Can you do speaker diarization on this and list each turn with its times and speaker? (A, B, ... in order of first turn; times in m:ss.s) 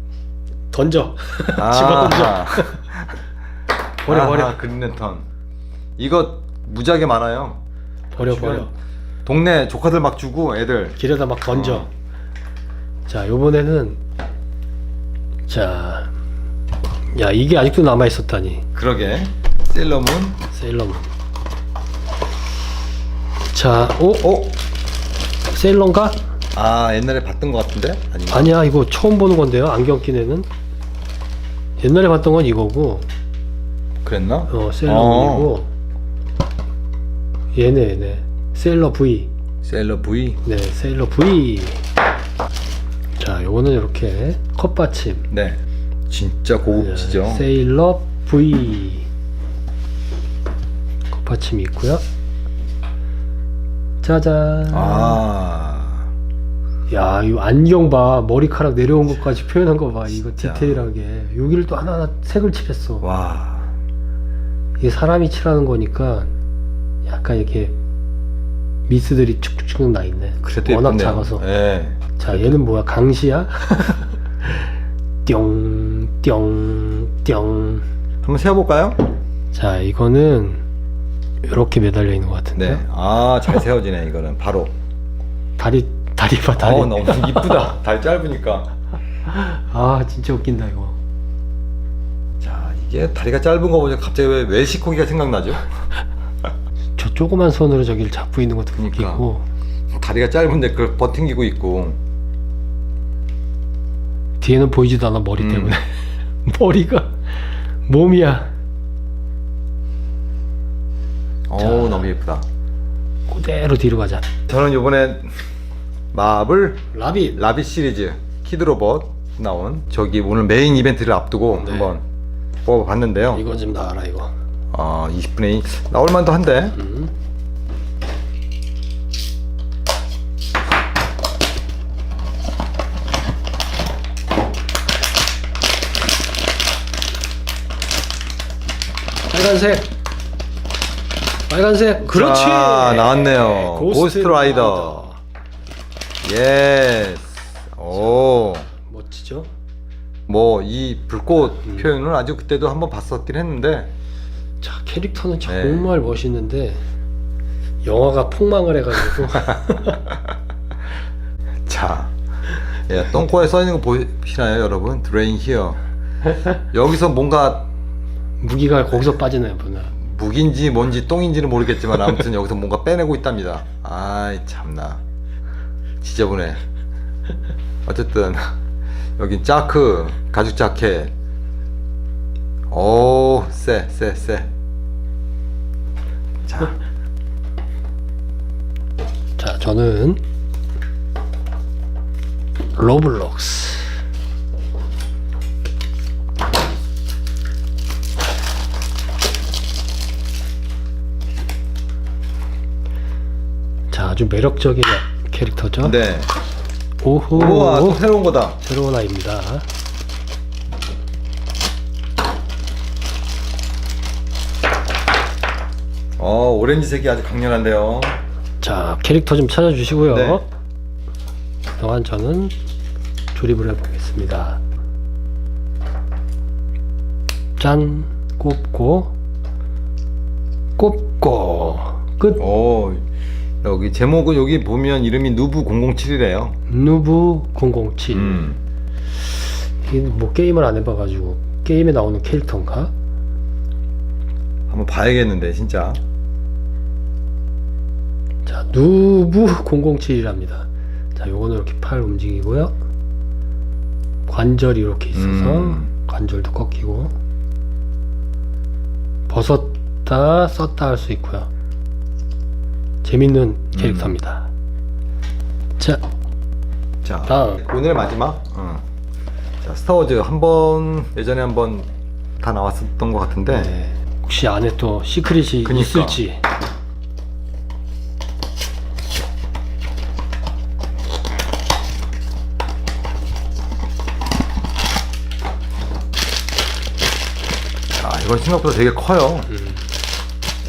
0:00.7-0:02.8 A
0:01.6-0:03.2 B
0:04.0-0:04.6 A
0:04.0-0:05.2 B
0:06.0-0:07.6 B
0:08.1-0:08.7 A
0:08.2-0:08.7 B
0:09.2-0:11.0 B
0:11.0-0:11.9 A
0:11.5-0:11.9 B
0:13.1-0:14.0 A
0:15.5-0:16.1 A
0:17.1-0:18.6 A
0:18.7-0:20.4 B
0:20.5-0:21.1 A
0:23.5-0:24.4 A
0:24.2-0:24.5 B
0:25.5-0:26.2 A
0:26.5-0:28.5 B
0:28.3-0:30.5 A
0:31.8-0:33.0 A
0:34.0-0:35.5 B
0:34.5-0:35.7 A
0:37.5-0:39.3 A
0:39.6-0:40.4 B
0:40.4-0:41.8 A
0:43.2-0:45.3 A
0:45.3-0:47.4 B
0:46.7-0:49.1 A
0:51.1-0:52.0 A
0:54.0-0:55.2 A
0:54.7-0:56.1 B
0:56.9-1:03.0 A
1:00.1-1:00.8 B
1:03.0-1:03.7 B
1:04.8-1:06.3 A
1:07.0-1:07.7 A
1:08.9-1:11.4 A
1:10.4-1:12.5 B
1:12.2-1:14.1 A
1:15.2-1:17.8 A
1:18.2-1:19.0 B
1:19.5-1:20.6 A
1:21.4-1:22.8 A
1:22.6-1:24.7 B
1:25.6-1:27.7 A
1:26.6-1:28.7 B
1:29.2-1:31.0 A
1:32.4-1:35.6 B
1:37.0-1:39.4 A
1:38.8-1:39.2 B
1:39.9-1:42.0 B
1:44.4-1:47.2 A
1:45.4-1:45.8 B
1:47.8-1:48.5 A
1:51.5-1:52.4 B
1:51.6-1:52.1 A
1:53.3-1:54.3 A
1:54.5-1:55.3 B
1:56.1-2:02.0 B
1:56.9-1:57.4 A
2:01.6-2:01.9 A
2:02.6-2:03.4 B
2:03.3-2:04.3 A
2:04.7-2:06.8 B
2:06.7-2:07.1 A
2:19.3-2:19.9 A
2:21.5-2:25.2 A
2:22.0-2:25.1 B
2:26.2-2:28.7 B
2:27.9-2:29.5 A
2:30.3-2:33.9 B
2:34.6-2:36.8 A
2:35.4-2:35.9 B
2:37.8-2:40.0 A
2:41.7-2:42.1 B
2:42.9-2:45.8 B
2:46.7-2:47.7 B
2:48.4-2:49.9 A
2:50.0-2:55.0 B
2:56.0-2:56.6 B
2:57.8-2:58.5 B
2:59.2-3:01.1 B
3:02.7-3:04.5 B
3:06.4-3:06.8 B
3:09.4-3:10.2 A
3:12.8-3:14.0 A
3:23.9-3:26.0 A
3:25.8-3:26.3 B
3:27.0-3:28.0 A
3:27.3-3:28.6 B
3:28.6-3:29.6 A
3:36.2-3:38.2 B
3:38.6-3:40.4 A
3:40.1-3:40.4 B
3:41.8-3:42.5 A
3:43.3-3:44.6 A
3:47.6-3:49.1 A
3:50.8-3:52.4 A
3:52.4-3:53.0 B
3:53.6-3:56.6 B
3:56.7-3:58.5 A
3:58.1-3:58.6 B
3:59.5-4:02.9 A
4:04.7-4:06.0 B
4:08.4-4:12.7 A
4:14.3-4:17.1 A
4:15.1-4:15.9 B
4:19.3-4:21.5 A
4:23.0-4:24.5 A
4:23.7-4:24.2 B
4:27.0-4:28.8 B
4:27.3-4:27.6 A
4:29.6-4:31.9 B
4:32.4-4:33.7 B
4:33.5-4:36.4 A
4:35.6-4:36.2 B
4:48.0-4:49.5 B
4:49.5-4:49.8 A